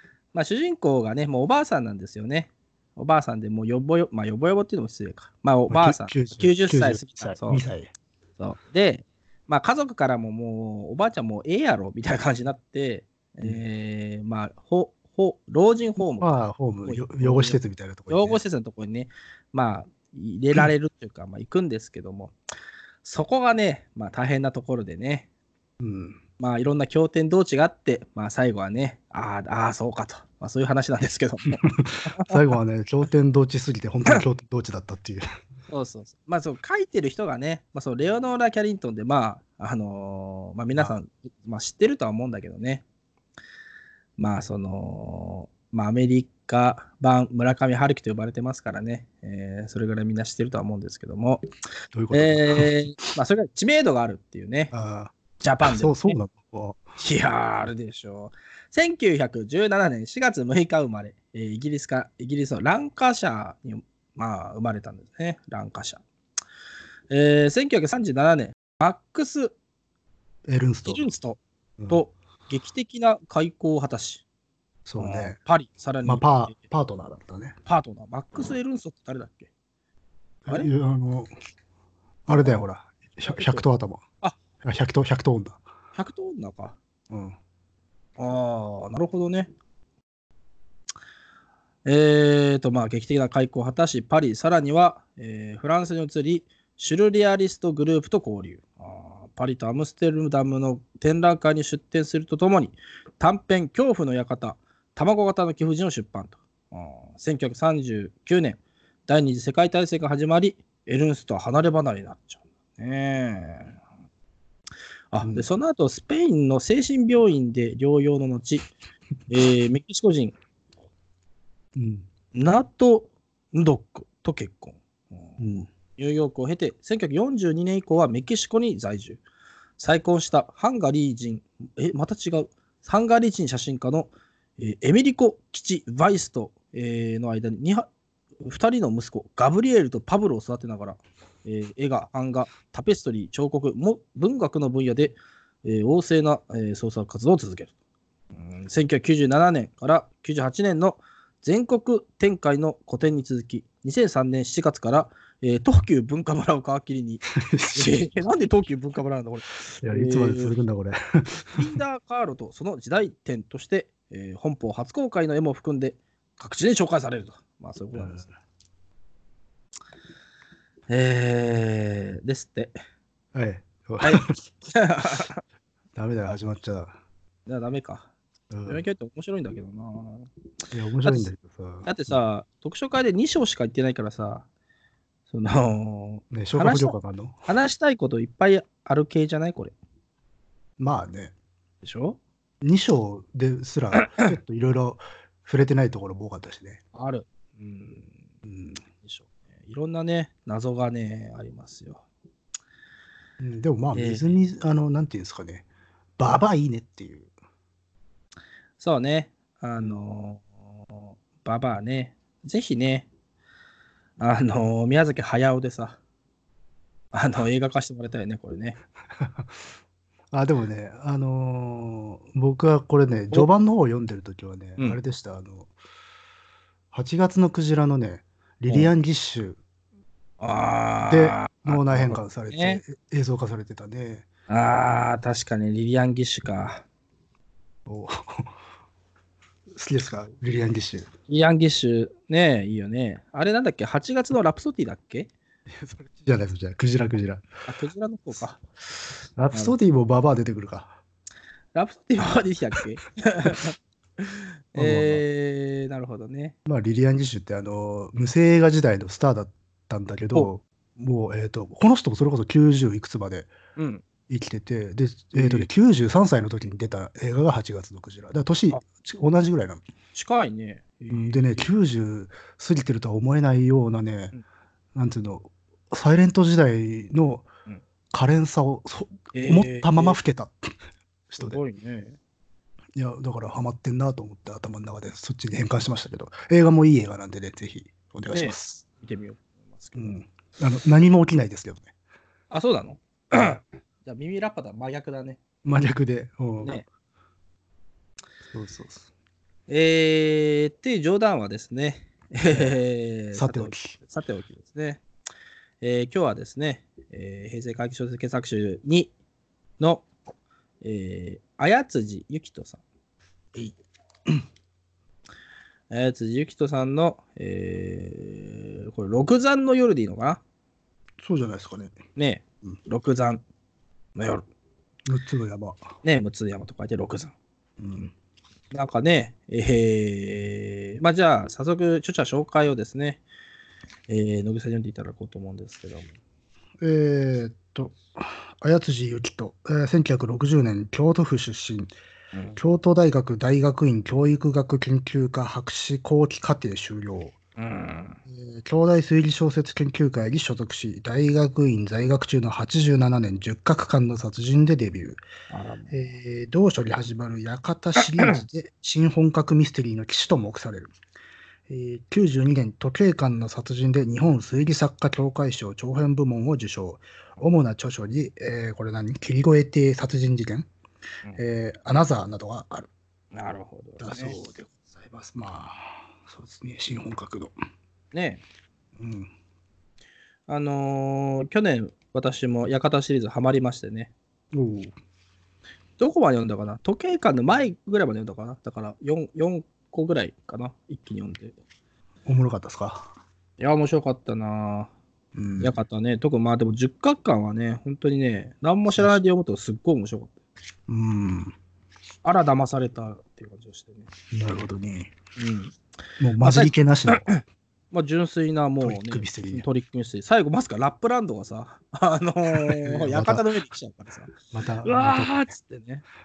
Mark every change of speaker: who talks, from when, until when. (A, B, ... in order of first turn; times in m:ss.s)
0:00.3-0:07.6 A
0:05.7-0:07.9 B
0:08.4-0:16.3 A
0:16.1-0:18.4 B
0:16.8-0:22.3 A
0:23.0-0:25.3 A
0:25.8-0:26.2 B
0:26.4-0:32.4 A
0:31.6-0:35.2 B
0:35.7-0:42.8 A
0:44.2-0:51.4 A
0:51.9-0:52.7 B
0:52.1-0:54.7 A
0:54.7-0:56.8 B
0:55.4-0:56.2 A
0:57.0-1:06.0 A
1:07.1-1:09.5 A
1:10.4-1:11.0 B
1:10.8-1:14.2 A
1:14.8-1:15.4 B
1:15.0-1:16.6 A
1:16.0-1:17.6 B
1:17.6-1:19.5 A
1:20.4-1:21.3 B
1:22.3-1:24.0 B
1:23.2-1:23.6 A
1:24.6-1:25.6 B
1:25.9-1:26.8 A
1:27.1-1:27.4 B
1:28.2-1:29.5 A
1:31.8-1:53.8 A
1:55.1-1:58.7 A
1:55.2-1:55.5 B
1:59.3-2:00.3 A
2:01.8-2:02.1 B
2:02.3-2:09.2 A
2:05.4-2:05.7 B
2:09.8-2:17.8 A
2:18.4-2:27.7 A
2:28.3-2:40.5 A
2:37.4-2:38.0 B
2:39.8-2:41.8 B
2:41.5-2:48.3 A
2:47.9-2:48.2 B
2:50.9-2:52.8 A
2:53.3-2:54.4 B
2:54.0-2:55.4 A
2:56.0-2:57.0 B
2:57.5-2:58.1 A
2:58.5-2:58.8 B
2:58.7-3:00.3 A
3:00.7-3:02.2 B
3:01.8-3:04.4 A
3:05.3-3:09.7 A
3:06.3-3:07.4 B
3:10.8-3:11.3 B
3:11.8-3:12.2 A
3:12.6-3:16.8 B
3:14.0-3:14.3 A
3:16.9-3:18.1 A
3:18.4-3:18.8 B
3:19.0-3:22.0 A
3:23.4-3:25.6 B
3:23.9-3:24.4 A
3:26.2-3:27.3 B
3:28.8-3:33.1 A
3:34.2-3:36.0 A
3:37.1-3:38.8 A
3:39.2-3:39.5 B
3:40.3-3:45.7 B
3:46.9-3:49.6 B
3:50.4-3:52.8 A
3:51.1-3:54.2 B
3:54.5-3:56.8 A
3:57.9-3:58.5 B
3:59.7-4:01.1 B
4:01.3-4:05.3 A
4:05.7-4:07.4 B
4:07.6-4:09.7 A
4:09.4-4:11.0 B
4:11.7-4:16.6 A
4:14.8-4:15.2 B
4:16.6-4:23.5 B
4:23.8-4:24.0 A
4:24.3-4:29.8 B
4:25.4-4:25.7 A
4:30.1-4:31.7 A
4:31.1-4:34.3 B
4:34.9-4:37.5 B
4:38.1-4:40.7 B
4:39.3-4:40.2 A
4:41.3-4:41.6 B
4:41.4-4:42.2 A
4:43.0-4:48.8 B
4:48.3-4:50.2 A
4:49.9-4:51.9 B
4:52.5-4:55.4 A
4:55.6-4:56.8 B
4:56.6-4:56.9 A
4:58.5-4:59.1 B
4:59.7-5:05.0 A
5:03.3-5:03.9 B
5:05.8-5:09.1 A
5:09.8-5:10.1 A
5:10.8-5:12.8 A
5:15.9-5:20.4 A
5:21.2-5:22.0 B
5:22.1-5:23.4 A
5:24.2-5:24.4 A
5:25.1-5:25.9 B
5:26.0-5:27.3 A
5:27.8-5:28.1 B
5:28.7-5:33.2 A
5:34.1-5:36.1 A
5:36.8-5:41.9 B
5:42.3-5:42.6 A
5:42.6-5:47.4 B
5:47.6-5:48.2 A
5:48.3-5:55.2 B
5:55.5-5:56.1 A
5:55.9-6:00.9 B
5:58.0-5:58.4 A
6:01.7-6:10.7 B
6:11.4-6:12.9 B
6:13.3-6:14.4 A
6:14.0-6:17.5 B
6:18.1-6:18.4 A
6:19.0-6:19.3 B
6:20.5-6:24.1 A
6:24.5-6:24.9 B
6:26.0-6:31.5 A
6:32.2-6:33.1 B
6:33.6-6:34.9 A
6:35.3-6:35.7 B
6:35.6-6:40.3 A
6:38.9-6:39.2 B
6:40.9-6:41.5 B
6:42.2-6:44.1 A
6:44.3-6:45.1 B
6:45.4-6:45.8 A
6:46.2-6:47.3 B
6:46.4-6:56.0 A
6:48.8-6:49.6 B
6:52.5-6:53.4 B
6:54.5-6:55.5 B